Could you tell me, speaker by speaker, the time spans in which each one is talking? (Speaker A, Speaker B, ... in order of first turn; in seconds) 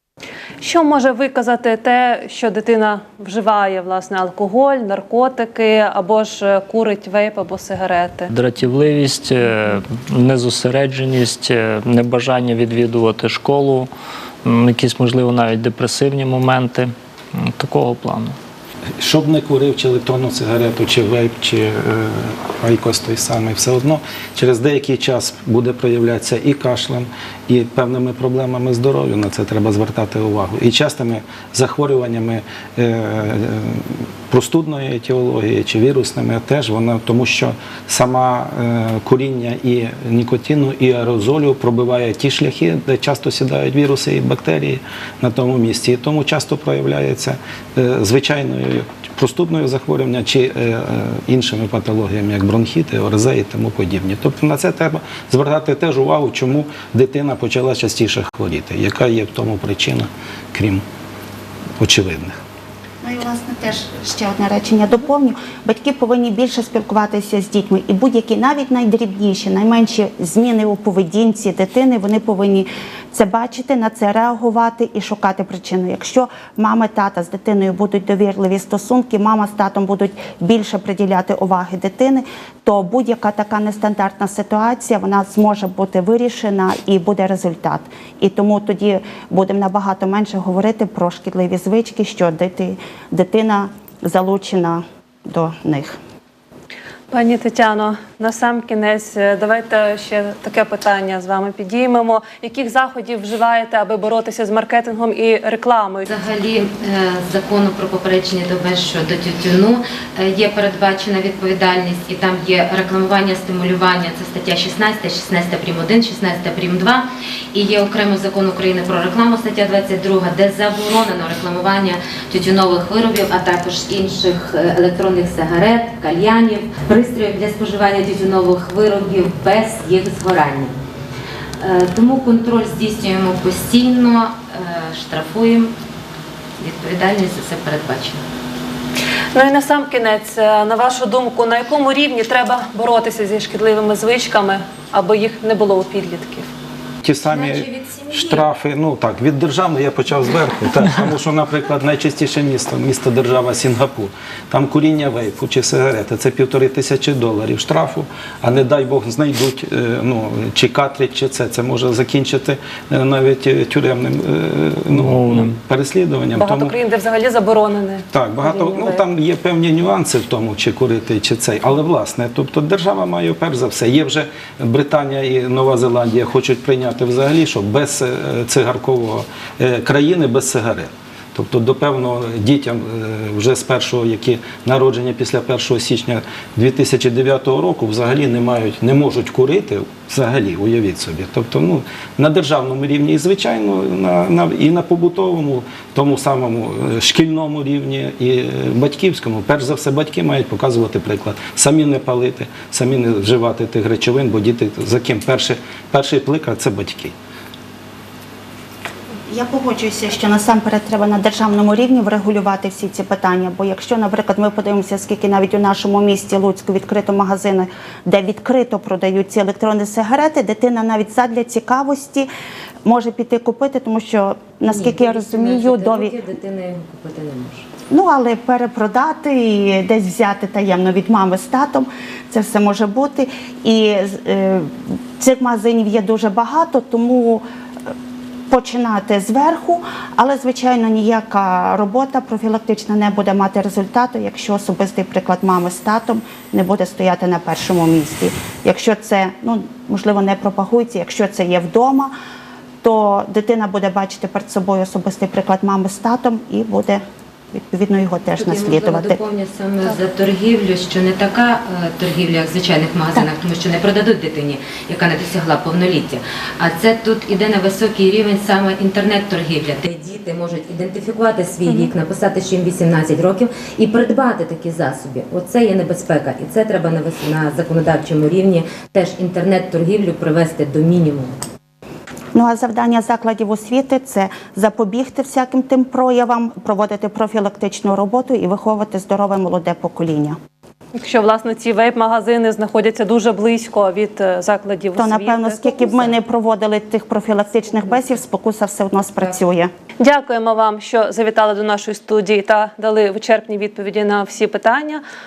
Speaker A: 0.6-8.3, 97.1-106.1, 139.3-146.5, 166.3-168.8, 290.9-296.1, 300.0-305.0
Speaker B: 8.3-13.9, 14.4-18.4, 164.9-165.6
Speaker C: 19.0-60.8, 61.8-62.4, 147.0-166.8, 168.1-207.1
Speaker D: 63.0-96.0, 209.3-222.3, 222.8-226.2, 227.9-237.9, 238.5-252.1, 252.8-259.2, 282.3-290.4, 295.0-299.7
Speaker E: 106.1-130.8, 131.6-135.7, 136.6-138.2, 147.3-148.5, 224.7-227.7, 258.4-281.4